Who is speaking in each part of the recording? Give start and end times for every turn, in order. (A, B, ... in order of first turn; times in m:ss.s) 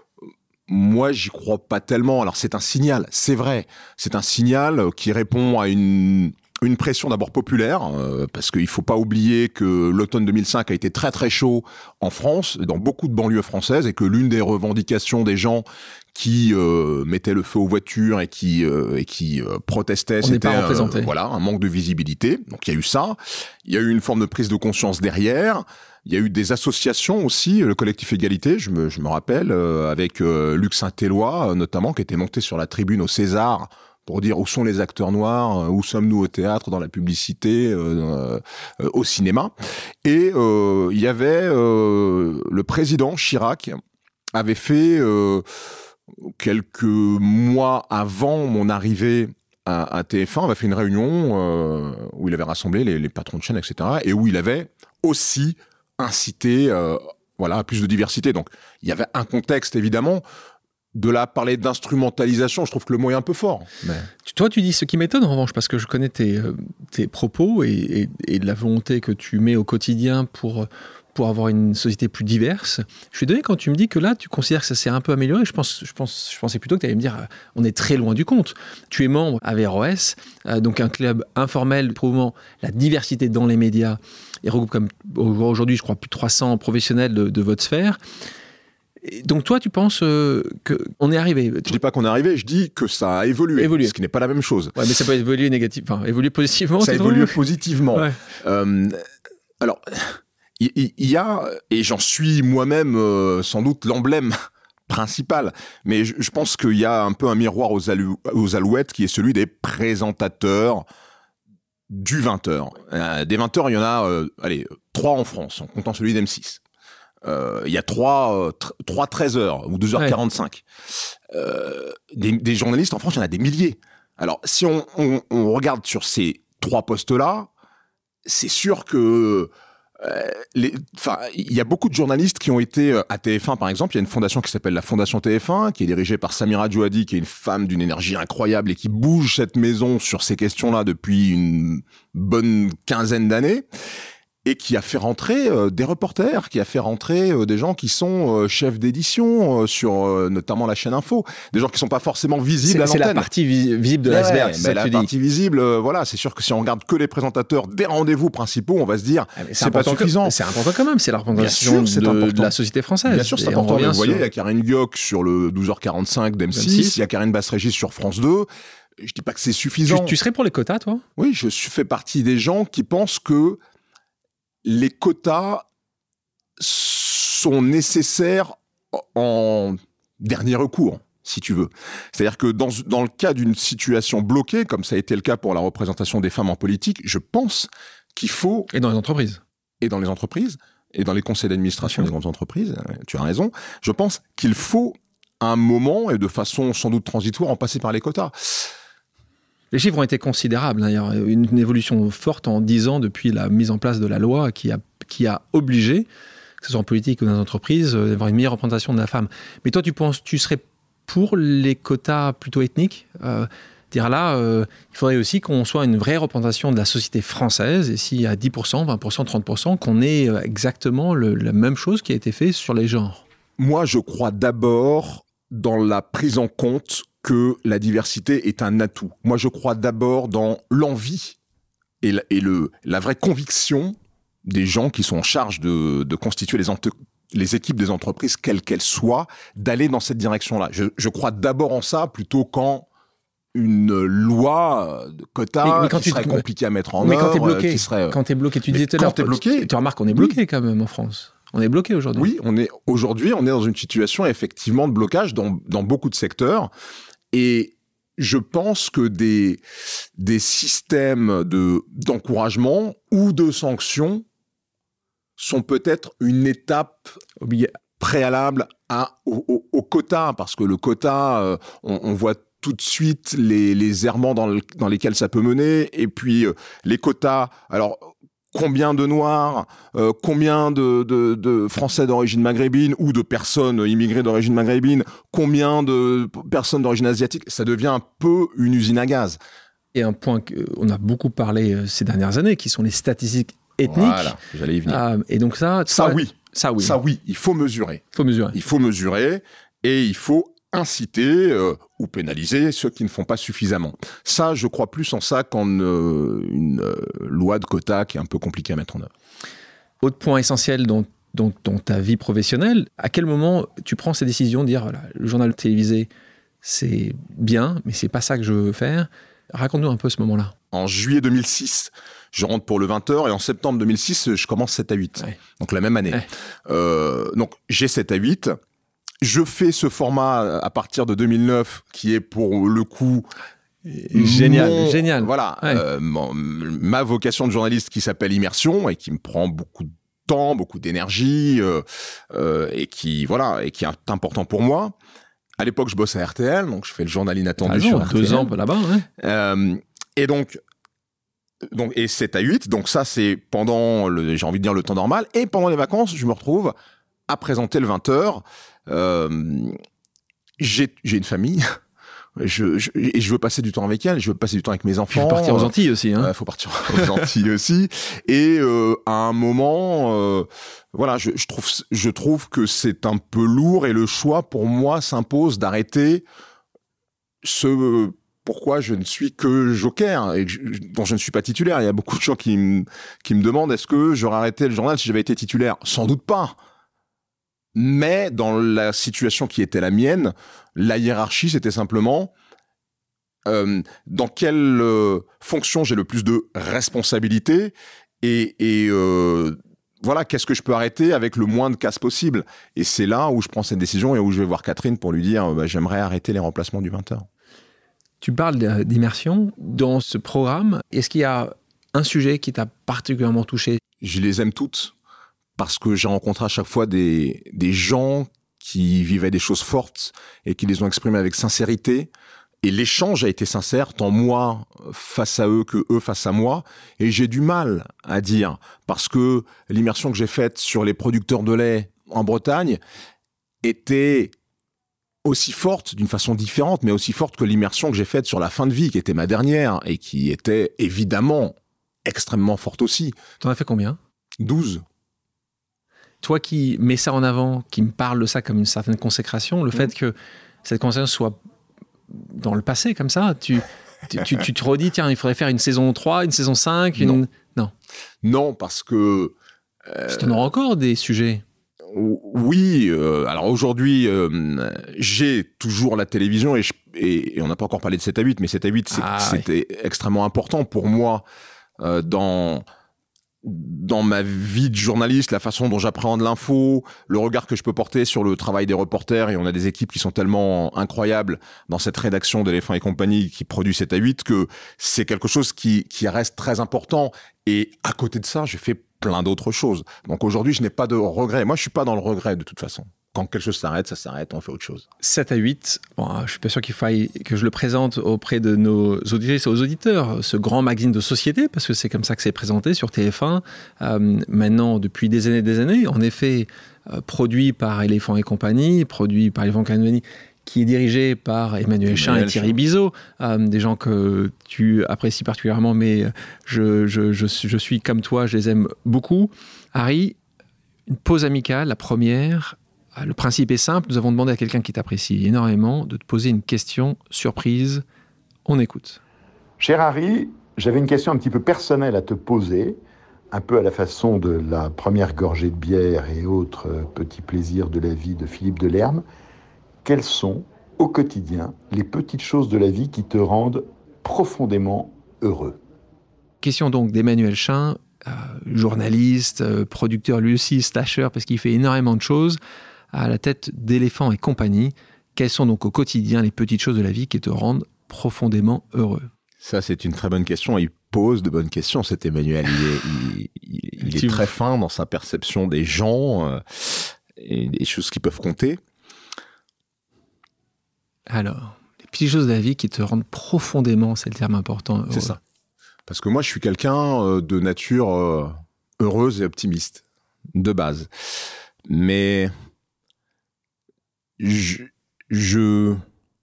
0:00.7-0:39.5 A
0:20.2-0:21.1 B
0:40.0-0:43.8 A
0:44.3-0:45.4 A
0:46.2-1:00.2 A
1:00.9-1:04.1 A
1:04.2-1:28.0 B
1:29.0-1:31.8 B
1:31.6-1:34.7 A
1:33.6-1:33.9 B
1:34.7-1:37.4 B
1:36.8-1:39.0 A
1:39.6-1:44.4 A
1:44.9-1:50.8 A
1:51.9-1:56.6 A
1:57.2-2:07.5 A
2:08.2-2:23.6 A
2:24.4-2:33.3 A
2:32.6-2:35.1 B
2:34.0-2:40.3 A
2:39.4-2:44.2 B
2:41.3-2:42.5 A
2:43.0-2:48.5 A
2:46.5-2:46.9 B
2:49.0-2:50.2 A
2:49.9-2:51.0 B
2:51.2-2:53.6 A
2:54.6-2:55.6 A
2:56.6-3:08.7 A
3:08.7-3:09.4 B
3:09.8-3:18.7 A
3:19.7-3:26.0 B
3:26.6-3:43.2 B
3:43.6-3:51.4 A
3:52.0-4:02.9 A
4:03.5-4:10.4 A
4:05.6-4:06.4 B
4:07.0-4:12.3 B
4:12.2-4:16.7 A
4:17.3-4:19.6 A
4:20.2-4:24.2 A
4:25.4-4:27.1 A
4:27.4-4:27.7 B
4:28.0-4:49.4 A
4:49.9-4:57.0 B
4:53.8-4:55.0 A
4:55.9-5:09.1 A
4:58.1-4:58.6 B
5:10.0-5:16.1 B
5:16.6-5:20.5 B
5:20.7-5:28.6 A
5:29.2-5:33.3 A
5:33.8-5:35.8 B
5:34.1-5:44.9 A
5:45.6-5:48.5 A
5:47.6-5:49.0 B
5:49.2-5:50.6 A
5:51.7-5:56.7 A
5:57.3-5:59.8 A
6:00.6-6:01.8 A
6:02.4-6:16.2 A
6:05.1-6:06.3 B
6:06.9-6:07.2 B
6:17.4-6:26.6 A
6:27.7-6:32.3 A
6:33.4-6:47.3 A
6:48.2-6:53.8 B
6:54.0-6:54.9 A
6:55.6-7:02.1 A
7:02.6-7:12.8 A
7:13.6-7:14.3 A
7:15.2-7:23.2 A
7:23.4-7:24.0 B
7:24.4-7:24.8 A
7:26.2-7:31.4 B
7:32.1-7:37.7 B
7:38.2-7:39.3 A
7:39.9-7:40.5 A
7:40.1-7:41.4 B
7:41.8-7:51.2 A
7:48.9-7:49.4 B
7:51.8-7:52.6 A
7:53.4-8:14.8 A
8:15.0-8:40.2 B
8:31.8-8:32.6 A
8:40.9-8:47.8 B
8:48.4-8:49.0 B
8:49.6-8:52.8 C
8:53.3-8:59.0 C
8:59.8-9:05.6 C
9:06.4-9:12.4 B
9:12.9-9:19.1 B
9:19.4-9:28.6 A
9:23.8-9:24.3 B
9:31.1-9:35.2 B
9:34.9-9:35.2 A
9:35.9-9:39.8 A
9:40.3-9:40.9 A
9:41.7-9:42.3 A
9:44.2-9:45.8 A